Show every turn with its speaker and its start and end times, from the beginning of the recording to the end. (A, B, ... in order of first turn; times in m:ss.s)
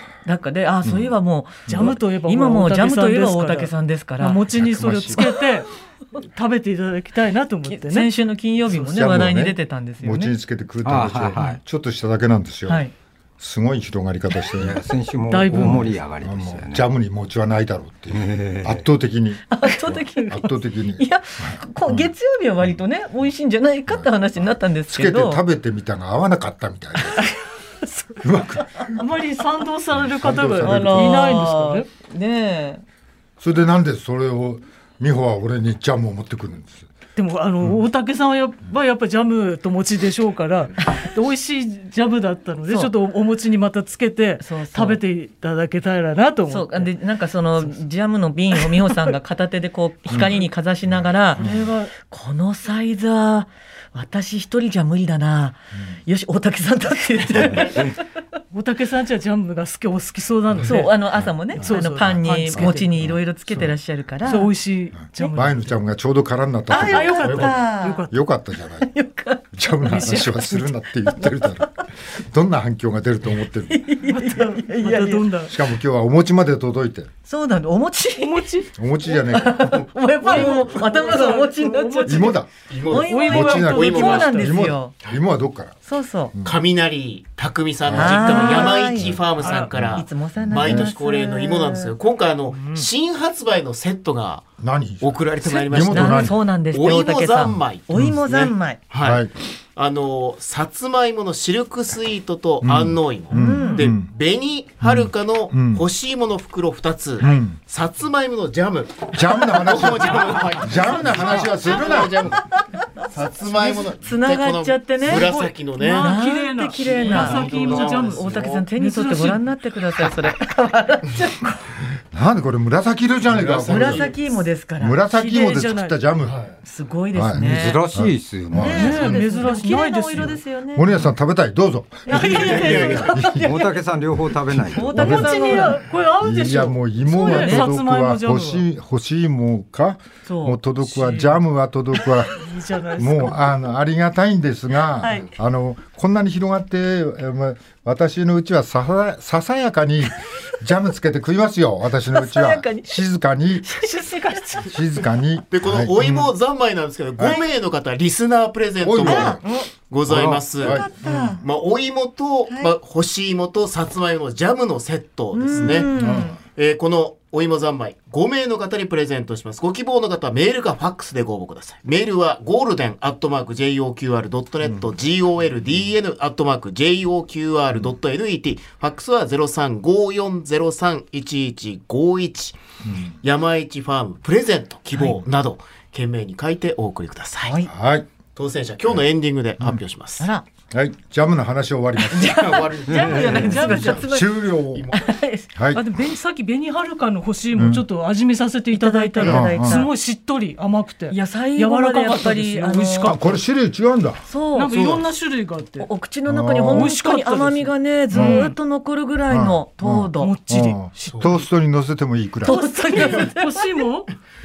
0:00.2-0:05.6 A
0:00.8-0:01.1 B
0:01.6-0:08.1 C
0:01.7-0:02.0 B
0:04.6-0:05.2 B
0:07.7-0:10.4 A
0:08.7-0:12.8 B
0:10.8-0:11.6 D
0:12.7-0:12.9 A
0:13.4-0:14.8 B
0:14.6-0:16.9 D
0:15.3-0:15.9 C
0:15.5-0:22.1 B
0:18.1-0:18.8 D
0:19.5-0:25.4 A
0:23.9-0:27.3 B
0:28.2-0:29.0 B
0:28.9-0:31.9 C
0:29.9-0:31.5 B
0:30.6-0:32.8 A
0:33.4-0:36.9 B
0:37.2-0:46.9 C
0:42.7-0:42.9 A
0:44.4-0:45.0 A
0:46.5-0:58.0 A
0:48.6-0:49.1 C
0:50.1-0:51.7 B
0:51.4-0:51.9 C
0:58.5-1:03.7 C
1:00.6-1:04.5 A
1:01.6-1:03.1 B
1:04.2-1:05.6 C
1:05.0-1:08.9 B
1:06.7-1:08.1 A
1:06.7-1:08.2 C
1:08.8-1:10.3 A
1:09.5-1:13.8 B
1:09.8-1:10.7 C
1:11.2-1:11.5 A
1:13.7-1:15.3 A
1:14.0-1:15.6 C
1:15.4-1:17.1 B
1:17.2-1:18.6 A
1:18.2-1:18.7 C
1:18.7-1:19.9 B
1:19.3-1:24.9 A
1:20.2-1:24.7 C
1:22.0-1:22.5 B
1:22.7-1:24.4 E
1:23.2-1:25.8 B
1:25.8-1:26.3 A
1:26.4-1:56.2 E
1:27.8-1:30.9 B
1:27.9-1:31.9 A
1:28.3-1:28.7 C
1:29.4-1:29.7 C
1:32.6-1:32.9 C
1:34.6-1:36.4 B
1:35.4-1:38.8 A
1:37.9-1:38.2 B
1:39.0-1:39.3 B
1:42.6-1:44.1 B
1:43.3-1:43.8 A
1:44.8-1:45.8 B
1:47.2-1:47.4 A
1:47.2-1:47.6 B
1:49.1-1:52.4 B
1:49.8-1:51.0 C
1:52.2-1:52.8 A
1:53.5-1:55.3 A
1:55.0-1:59.5 C
1:56.0-2:01.6 A
1:56.8-1:58.6 E
2:02.1-2:04.2 B
2:03.3-2:04.2 E
2:03.6-2:05.0 A
2:04.8-2:06.4 B
2:05.1-2:06.0 C
2:06.6-2:07.8 A
2:07.1-2:09.2 B
2:07.3-2:09.2 D
2:08.5-2:11.1 A
2:08.6-2:10.4 C
2:10.7-2:13.6 B
2:12.1-2:13.8 A
2:12.1-2:12.9 C
2:12.4-2:15.5 D
2:12.5-2:13.0 E
2:14.5-2:15.8 A
2:14.6-2:33.8 B
2:15.0-2:18.6 C
2:17.1-2:17.7 A
2:20.2-2:20.6 A
2:20.8-2:21.4 C
2:22.4-2:23.4 C
2:25.0-2:25.3 A
2:32.1-2:33.0 A
2:33.6-2:34.8 A
2:34.6-2:36.3 B
2:35.5-2:45.9 E
2:38.8-2:39.4 B
2:39.0-2:39.6 A
2:40.1-2:41.4 B
2:40.6-2:41.4 A
2:42.5-2:42.7 A
2:45.3-2:46.4 A
2:45.6-2:46.4 B
2:46.5-3:02.6 E
3:02.8-3:03.1 B
3:03.2-3:07.6 E
3:07.4-3:07.7 A
3:07.7-3:08.1 B
3:08.4-3:10.2 E
3:10.2-3:10.4 A
3:10.7-3:15.0 B
3:12.1-3:15.5 A
3:12.3-3:13.8 E
3:13.3-3:14.0 C
3:15.5-3:15.9 B
3:15.7-3:23.4 C
3:17.5-3:17.8 B
3:18.7-3:19.9 A
3:19.2-3:19.9 B
3:21.1-3:23.2 A
3:23.0-3:25.0 B
3:24.3-3:25.0 A
3:24.5-3:25.9 C
3:25.8-3:30.4 A
3:26.2-3:27.0 B
3:26.7-3:28.6 C
3:28.1-3:28.5 B
3:29.3-3:32.7 B
3:30.2-3:31.4 C
3:32.4-3:33.8 A
3:32.5-3:34.1 C